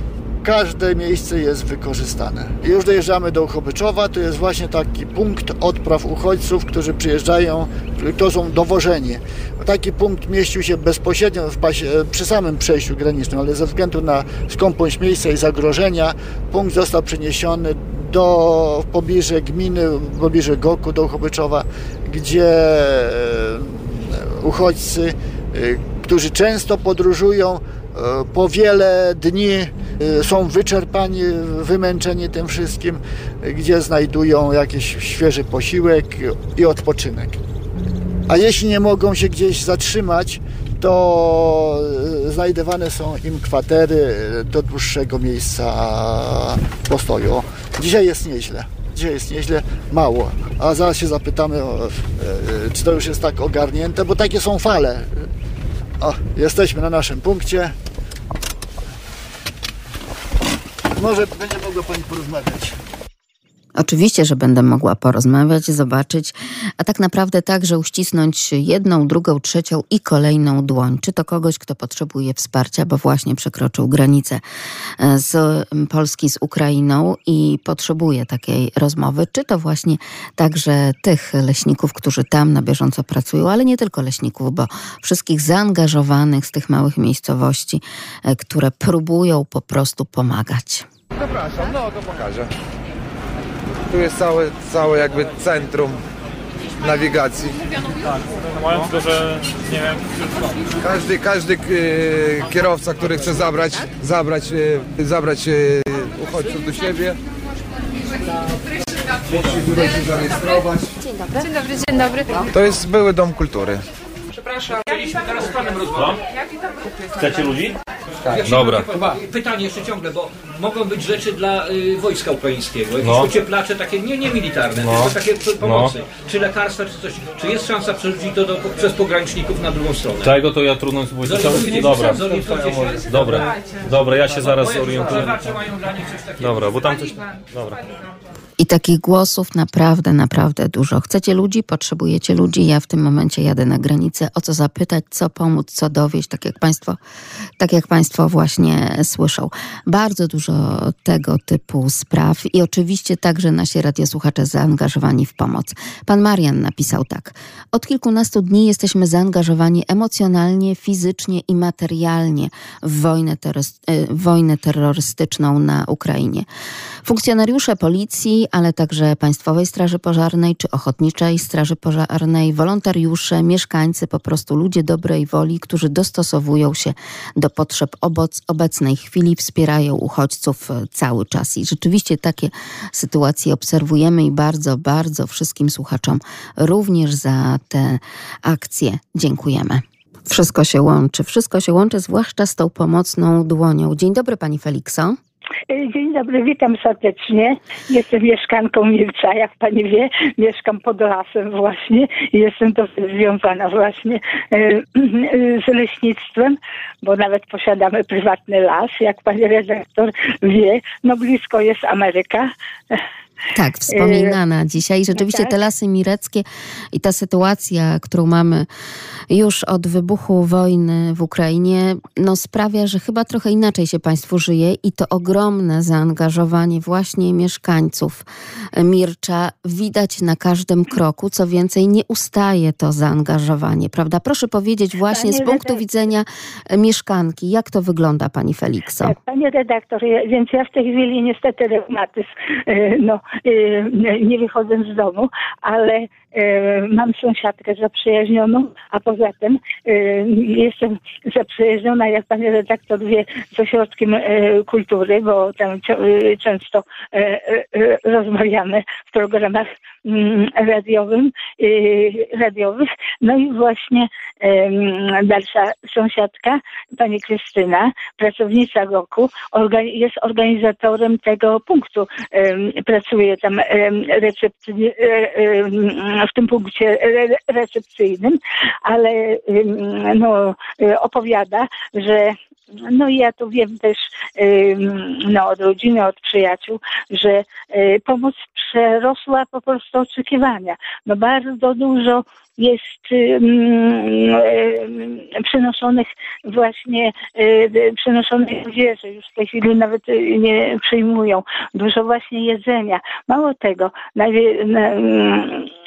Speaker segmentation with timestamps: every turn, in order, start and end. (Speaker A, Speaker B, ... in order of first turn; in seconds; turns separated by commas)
Speaker A: 0.4-37.4, Speaker A: 38.3-55.3, Speaker A: 56.0-57.7, Speaker A: 61.0-62.8, Speaker B: 63.8-74.4, Speaker B: 75.0-90.8, Speaker C: 91.3-92.5, Speaker C: 93.9-96.0, Speaker C: 96.8-97.7, Speaker C: 100.8-107.2, Speaker C: 109.3-110.9, Speaker C: 112.3-113.8, Speaker D: 114.5-116.2, Speaker E: 115.9-116.2, Speaker E: 117.1-117.8, Speaker D: 118.2-130.3, Speaker E: 118.3-119.0, Speaker E: 123.0-123.3, Speaker E: 124.7-126.0, Speaker E: 130.2-135.6, Speaker D: 131.2-133.3, Speaker D: 135.5-136.2, Speaker E: 136.4-137.8, Speaker B: 138.6-147.0, Speaker B: 147.6-166.4, Speaker B: 167.0-195.2, Speaker F: 195.7-213.0, Speaker B: 213.5-218.7, Speaker F: 213.9-214.3, Speaker F: 215.2-215.5, Speaker B: 219.3-228.2, Speaker B: 228.8-239.2, Speaker F: 235.1-235.8, Speaker F: 239.0-305.7